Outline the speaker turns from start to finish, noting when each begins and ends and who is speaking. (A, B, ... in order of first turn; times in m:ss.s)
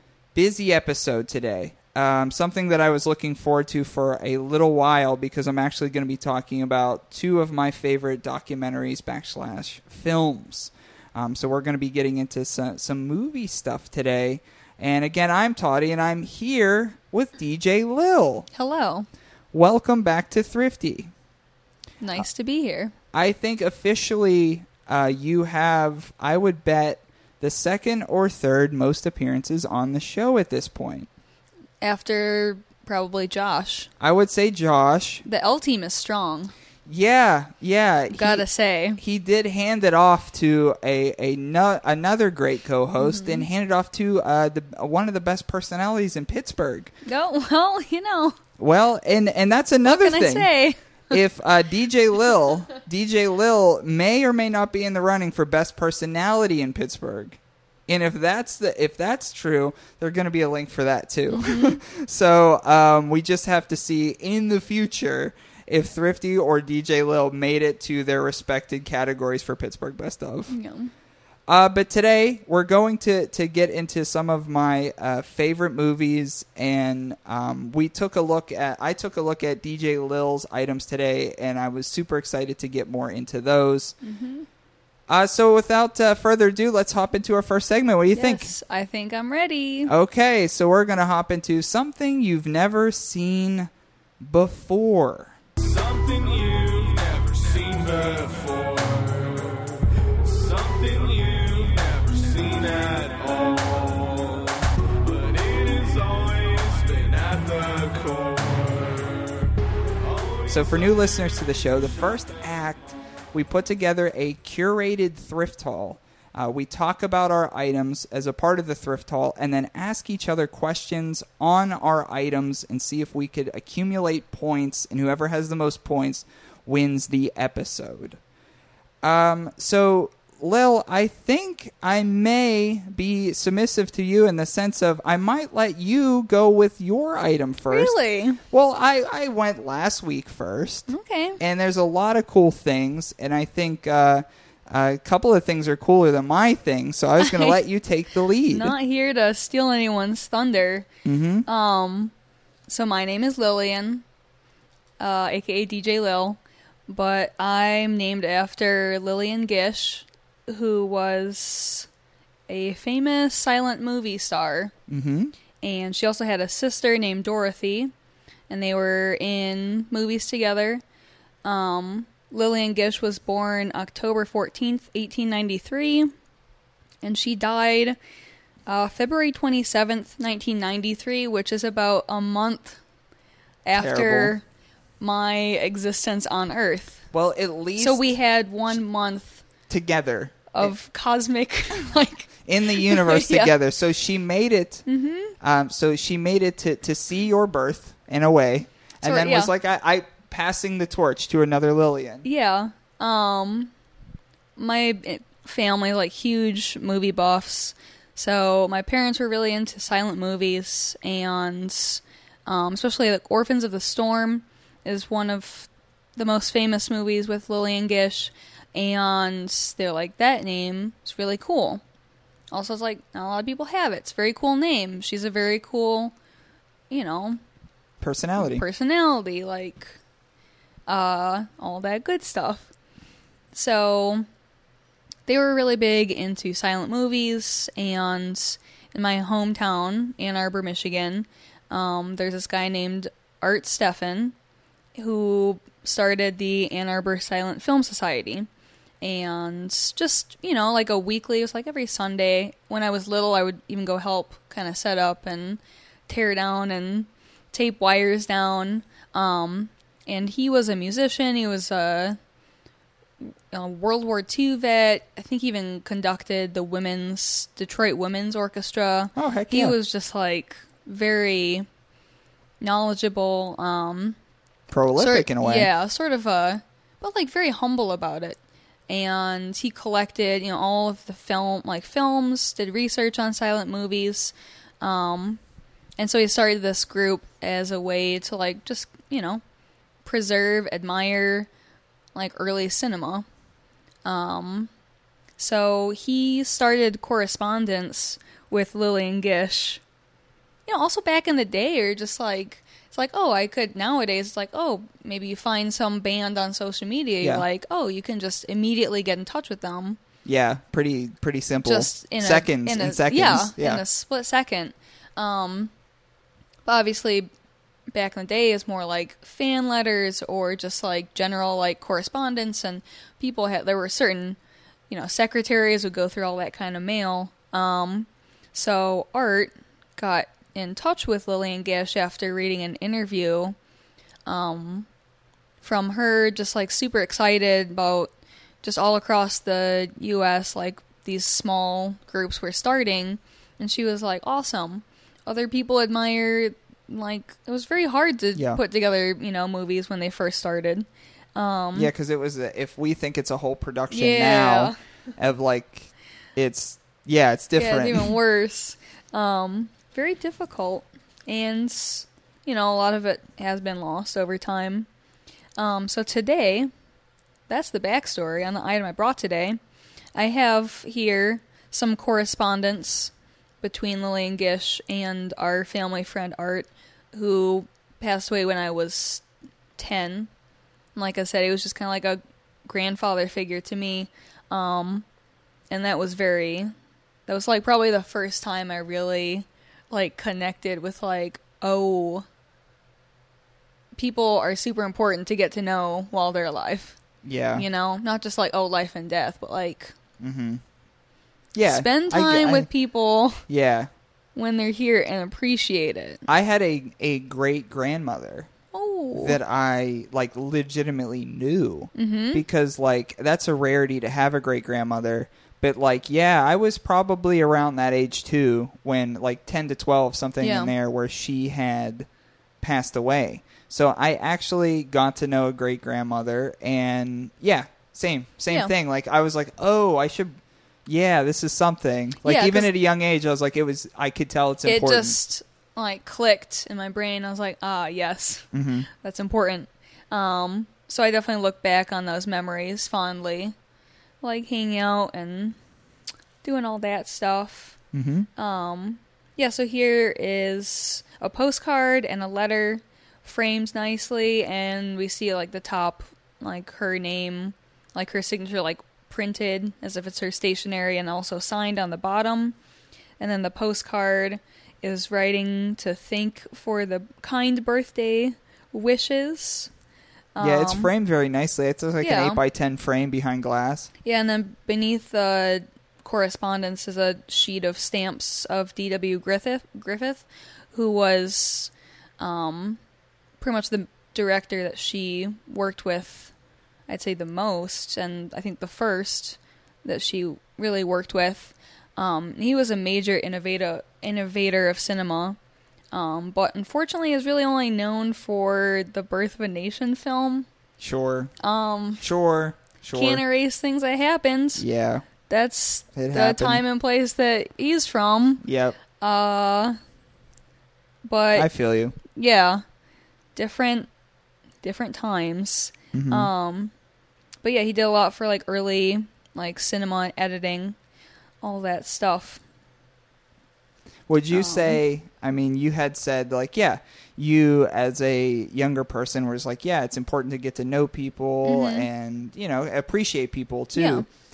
0:00.3-0:18.5 A
0:18.5-0:19.1 B
0:19.5-0:21.1 A
0:22.0-0:22.9 B
0:23.1-0:31.1 A
0:31.8-0:33.9 B
0:34.0-0:35.2 A
0:35.2-0:36.5 B
0:36.8-0:38.4 A
0:38.1-0:39.0 B
0:39.0-0:46.9 A
0:43.0-0:43.5 B
0:47.0-0:48.4 B
0:48.6-0:50.5 A
0:49.8-0:51.2 B
0:51.1-1:10.5 A
1:01.3-1:01.8 B
1:10.5-1:10.9 B
1:11.5-1:24.0 A
1:24.0-1:24.5 B
1:25.1-1:28.5 A
1:28.1-1:29.9 B
1:29.9-1:35.3 A
1:35.6-1:39.6 C
1:40.2-1:49.2 C
1:50.0-1:50.5 C
1:50.5-2:08.2 A
2:09.0-2:17.9 A
2:17.7-2:18.4 B
2:18.5-2:28.7 A
2:20.9-2:21.4 B
2:27.2-2:27.6 B
2:28.5-2:30.9 B
2:31.0-2:31.4 A
2:31.4-2:32.1 B
2:32.7-2:34.0 B
2:35.0-2:41.9 B
2:42.5-2:44.7 B
2:44.9-2:45.3 A
2:45.6-2:47.9 B
2:48.5-2:50.8 B
2:51.4-2:56.1 B
2:57.0-2:58.0 B
2:58.6-3:02.8 B
3:03.6-3:04.4 B
3:03.8-3:04.4 A
3:05.0-3:07.0 B
3:07.1-3:08.0 A
3:07.8-3:09.4 B
3:09.7-3:10.7 A
3:10.5-3:13.5 B
3:12.4-3:14.8 A
3:14.9-3:15.3 B
3:15.4-3:22.2 A
3:19.0-3:19.5 B
3:22.2-3:23.7 B
3:24.6-3:41.8 B
3:42.5-3:46.1 B
3:46.9-3:47.4 B
3:48.0-3:48.6 A
3:48.4-3:50.0 B
3:50.9-3:52.7 B
3:53.5-3:54.2 B
3:55.3-4:04.3 B
4:04.9-4:08.5 B
4:09.0-4:22.2 B
4:23.2-4:31.7 B
4:29.2-4:29.8 A
4:32.6-4:34.2 B
4:34.7-4:35.7 A
4:35.0-4:38.4 B
4:38.9-4:45.4 B
4:46.0-4:49.4 B
4:50.0-4:51.5 B
4:52.1-4:53.2 B
4:54.0-4:54.7 B
4:55.4-4:59.8 B
5:00.6-5:10.0 B
5:10.2-5:13.8 A
5:11.6-5:15.7 B
5:16.6-5:17.3 B
5:17.9-5:24.4 B
5:24.9-5:33.6 B
5:34.2-5:34.9 B
5:35.6-5:38.1 B
5:38.6-5:51.9 B
5:48.3-5:48.6 A
5:51.7-5:58.1 A
5:53.9-5:54.8 B
5:57.6-6:04.9 B
6:05.6-6:06.7 B
6:07.5-6:09.6 B
6:10.1-6:19.2 B
6:19.8-6:20.3 B
6:20.9-6:25.0 B
6:25.7-6:26.7 B
6:27.2-6:32.2 B
6:33.9-6:37.0 B
6:37.2-6:37.6 A
6:37.5-6:39.9 B
6:40.2-6:40.6 A
6:41.5-6:42.7 A
6:41.7-6:43.4 B
6:43.5-6:43.9 A
6:44.3-6:46.2 B
6:46.3-6:48.5 A
6:48.7-6:49.4 B
6:49.2-7:02.1 A
6:51.9-6:52.4 B
7:00.4-7:00.7 B
7:02.6-7:15.2 A
7:12.2-7:12.7 B
7:14.6-7:23.5 B
7:18.5-7:18.9 A
7:24.2-7:25.6 B
7:26.4-7:27.8 B
7:27.9-7:28.3 A
7:28.4-7:42.6 B
7:43.2-7:49.7 B
7:50.4-7:50.9 B
7:50.4-7:53.9 A
7:52.0-7:52.4 B
7:54.0-8:02.8 B
8:03.4-8:06.3 B
8:06.9-8:15.4 B
8:15.9-8:20.5 B
8:20.8-8:21.3 A
8:21.4-8:22.0 B
8:22.0-8:23.2 A
8:22.9-8:24.6 B
8:24.6-8:25.0 A
8:25.2-8:28.4 B
8:25.9-8:26.6 A
8:28.4-8:28.8 A
8:29.0-8:29.8 B
8:31.0-8:31.5 B
8:31.3-8:32.0 A
8:32.1-8:32.6 B
8:33.4-8:33.9 B
8:34.6-8:36.7 B
8:35.9-8:36.3 A
8:37.4-8:40.8 B
8:41.4-8:42.4 B
8:44.1-8:54.1 A
8:44.3-8:44.8 B
8:51.4-8:51.9 B
8:53.7-8:54.0 B